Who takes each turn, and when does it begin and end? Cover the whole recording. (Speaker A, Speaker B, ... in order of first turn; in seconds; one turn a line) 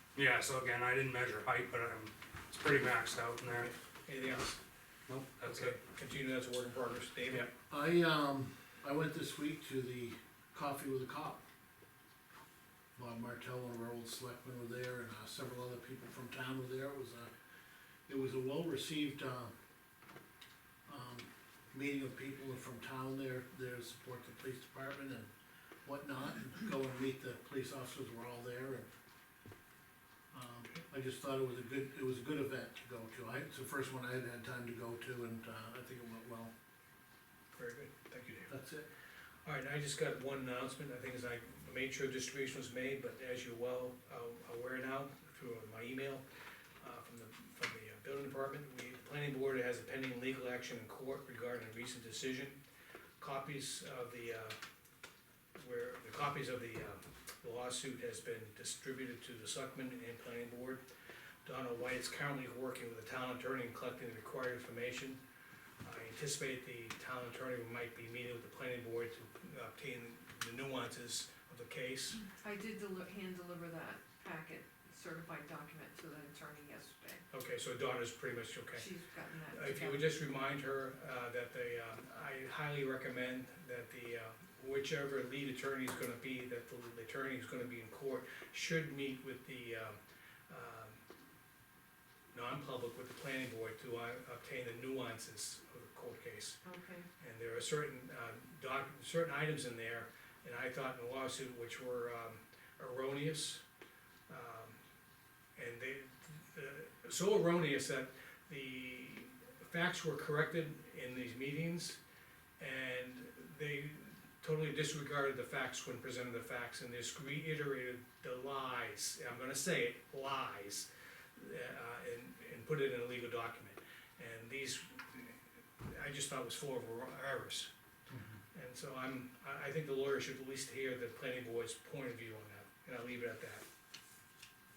Speaker A: 0.1-3.7
Speaker B: 3.5-4.6
Speaker A: 5.1-5.8
Speaker B: 5.5-7.5
Speaker C: 7.3-11.4
Speaker C: 13.0-17.3
Speaker C: 18.1-19.5
Speaker C: 20.9-25.3
Speaker C: 25.9-28.9
Speaker C: 30.3-36.5
Speaker B: 37.5-38.5
Speaker C: 38.5-38.9
Speaker B: 39.5-46.2
Speaker B: 46.8-52.6
Speaker B: 53.2-54.6
Speaker B: 55.5-60.8
Speaker B: 61.5-65.2
Speaker B: 65.8-72.2
Speaker D: 72.2-77.2
Speaker B: 77.3-78.9
Speaker D: 78.8-80.1
Speaker B: 79.5-90.0
Speaker B: 90.5-91.0
Speaker B: 92.3-96.6
Speaker D: 96.7-97.1
Speaker B: 97.2-103.6
Speaker B: 104.3-104.8
Speaker B: 105.6-112.0
Speaker B: 112.6-127.7
Speaker C: 128.1-128.4
Speaker B: 128.5-133.7